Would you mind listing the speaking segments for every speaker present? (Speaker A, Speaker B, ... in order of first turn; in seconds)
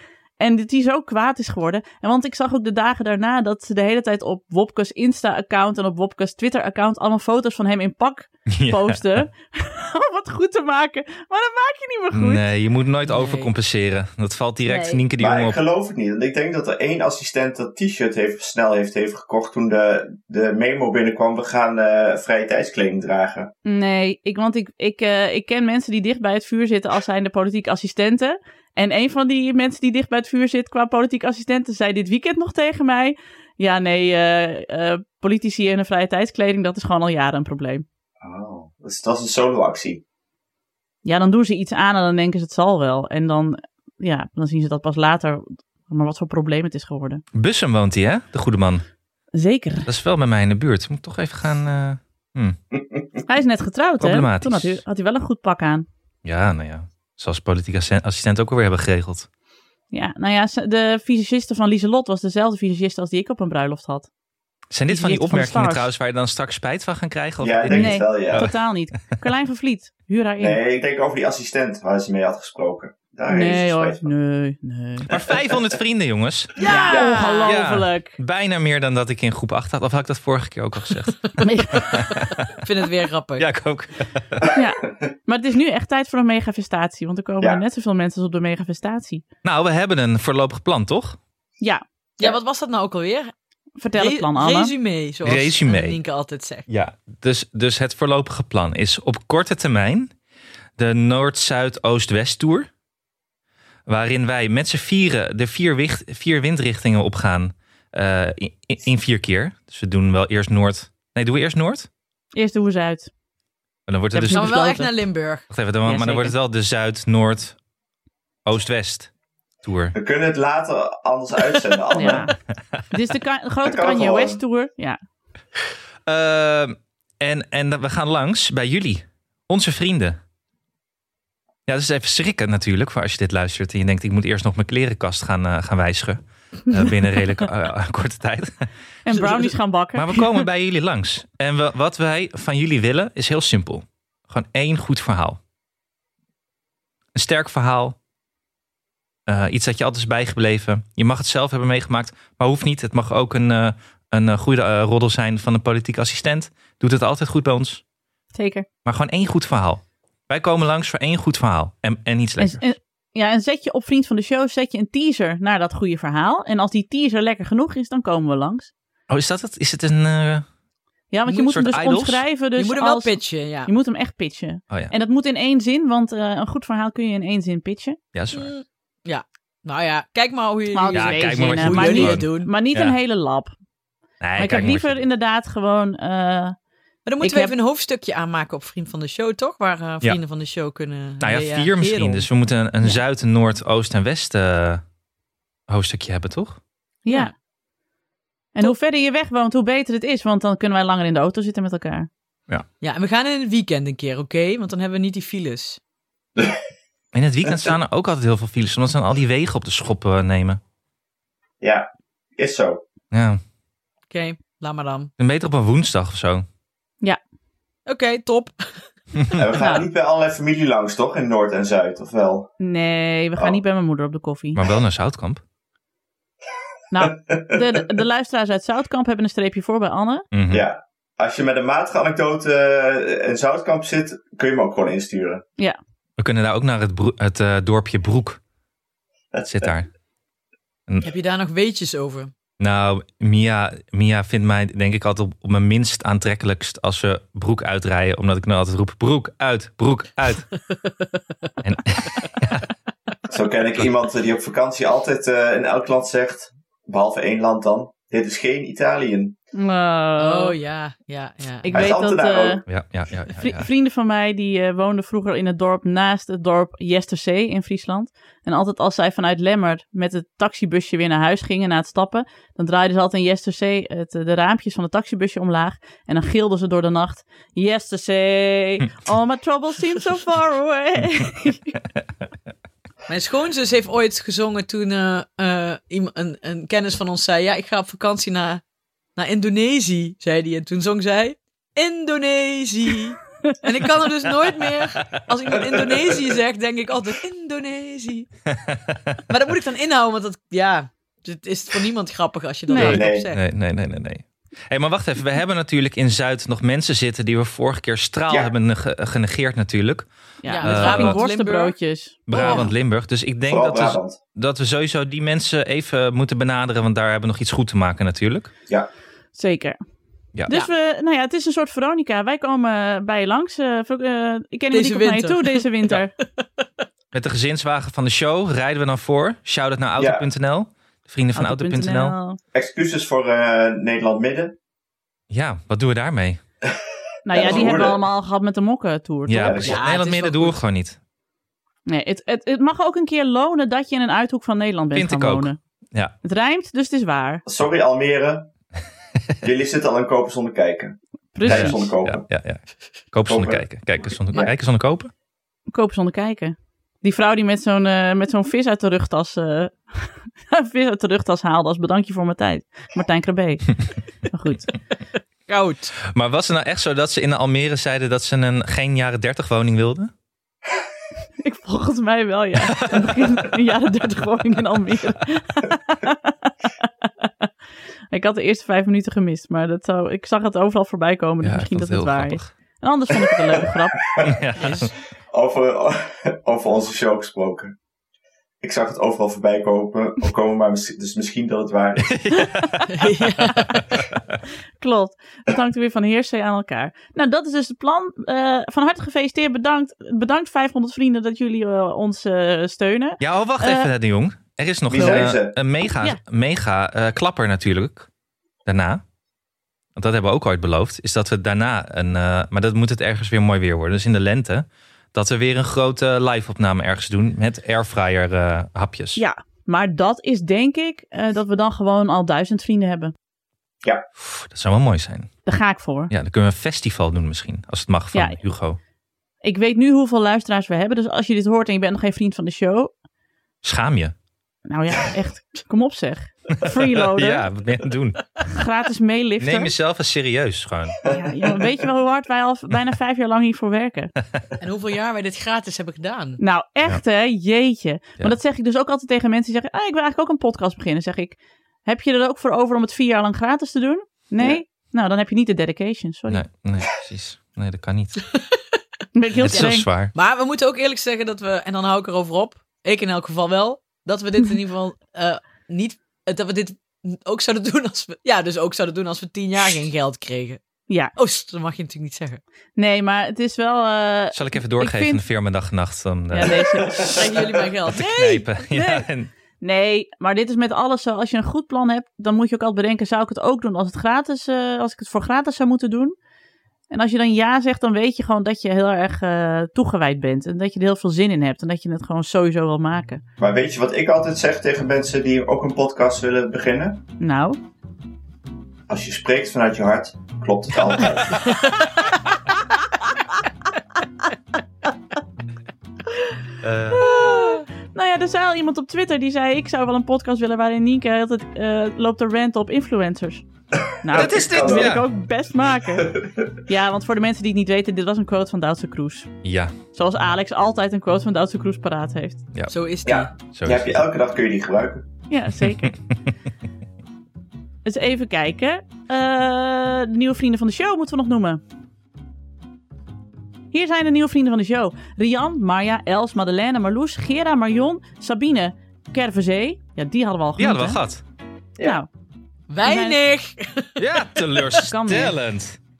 Speaker A: 0.4-12.4, 14.7-15.0, 23.6-37.8, 41.0-47.2, 49.4-49.9, 53.2-55.9, 59.9-64.1, 64.9-65.9, 67.7-70.6, 73.3-75.1, 76.6-78.2, 81.4-82.0, 84.5-89.2, 93.8-94.7, 112.3-113.1, 114.1-114.9, 115.8-116.3, 121.9-122.3, 122.9-125.0, 139.1-140.5, 158.3-158.7, 162.4-168.7, 171.1-178.0, 180.7-183.5, 184.4-186.6, 187.2-187.5, 197.0-197.3, 198.5-202.1, 219.6-219.9, 222.6-224.6, 226.9-230.2, 259.5-260.6, 261.6-262.6, 263.4-281.8, 302.7-303.0, 310.4-312.7, 319.3-319.8, 320.5-326.1, 331.3-332.4, 337.2-339.6, 341.9-345.6, 346.2-347.4, 351.3-351.9, 355.7-364.7, 371.4-377.3, 378.1-384.0, 392.3-392.8, 394.8-403.9, 405.9-406.2, 419.1-423.1, 425.4-426.1, 428.1-428.4, 429.4-432.9, 434.7-437.5, 438.4-439.7, 441.0-444.1, 446.4-456.4, 459.1-459.9, 472.8-475.2, 476.3-477.2, 478.7-479.1, 479.6-486.1, 486.9-493.2, 497.2-497.6, 506.1-513.4, 514.0-519.3, 519.9-522.4, 525.3-525.9, 527.8-531.6, 533.7-541.0, 541.8-542.1, 542.8-543.2, 544.8-545.4
Speaker B: 8.5-9.2, 12.1-15.6, 47.3-48.8, 49.9-52.6, 54.0-54.8, 56.2-59.3, 64.7-68.5, 75.1-76.6, 77.4-81.2, 81.7-82.6, 83.4-84.5, 89.4-91.2, 95.2-96.0, 96.7-100.1, 100.8-102.7, 103.9-111.9, 113.9-114.8, 115.5-117.6, 118.4-119.1, 119.6-120.0, 126.0-130.2, 131.7-138.7, 139.9-145.4, 147.1-148.0, 149.3-157.8, 158.8-162.6, 169.1-170.4, 171.3-172.2, 178.1-178.5, 180.9-183.0, 184.2-185.0, 191.2-194.8, 195.7-196.6, 207.1-210.6, 213.1-213.4, 215.2-216.4, 224.5-225.4, 230.3-230.7, 236.2-238.4, 239.5-239.9, 242.6-250.5, 251.6-252.6, 262.7-263.7, 295.0-295.2, 298.5-299.2, 302.8-310.1, 310.6-311.2, 312.3-318.5, 327.1-332.1, 335.3-336.4, 339.3-341.0, 344.9-346.1, 351.4-352.6, 353.1-355.1, 366.1-370.1, 372.7-373.1, 381.4-382.5, 384.2-384.9, 392.0-392.8, 403.2-408.1, 408.6-409.0, 409.9-419.2, 424.2-425.3, 426.1-428.8, 433.6-434.1, 436.6-438.2, 439.4-441.0, 456.3-458.2, 459.4-460.1, 474.3-476.7, 477.9-479.3, 506.6-507.0, 514.1-515.1, 519.4-519.7, 523.5-524.0, 525.6-525.9, 540.6-541.2, 544.0-545.8
Speaker C: 13.0-13.5, 76.6-77.6, 82.5-83.5, 92.2-93.3, 94.0-96.7, 114.3-115.5, 139.1-139.5, 172.6-173.7, 178.3-182.5, 187.1-192.3, 202.8-205.8, 214.1-215.1, 217.8-218.8, 241.0-242.3, 260.2-261.7, 283.1-288.6, 289.1-298.3, 299.3-303.4, 310.5-311.8, 312.3-312.7, 324.7-325.7, 326.2-326.6, 339.6-340.6, 365.5-365.9, 384.6-384.9, 392.9-393.8, 444.6-446.4, 458.3-458.6, 459.5-470.6, 471.1-472.4, 477.1-478.5, 522.7-523.3, 542.7-544.8
Speaker D: 15.2-23.5, 38.2-40.0, 52.7-53.0, 67.4-68.4, 70.4-74.1, 75.1-75.6, 76.9-77.2, 119.9-122.2, 123.6-124.4, 207.4-207.7, 211.6-212.8, 219.3-222.5, 227.0-227.8, 230.5-235.4, 239.3-239.7, 253.3-259.4, 261.7-262.6, 302.8-303.3, 313.5-314.2, 330.0-330.2, 332.5-334.6, 337.3-338.0, 339.4-339.8, 347.4-348.5, 349.4-352.3, 353.2-353.6, 384.0-384.4, 385.3-387.8, 388.6-392.2, 404.9-405.6, 441.0-441.5, 476.8-477.5, 493.4-497.0, 498.9-501.5, 514.1-515.0, 515.9-516.5, 523.0-525.0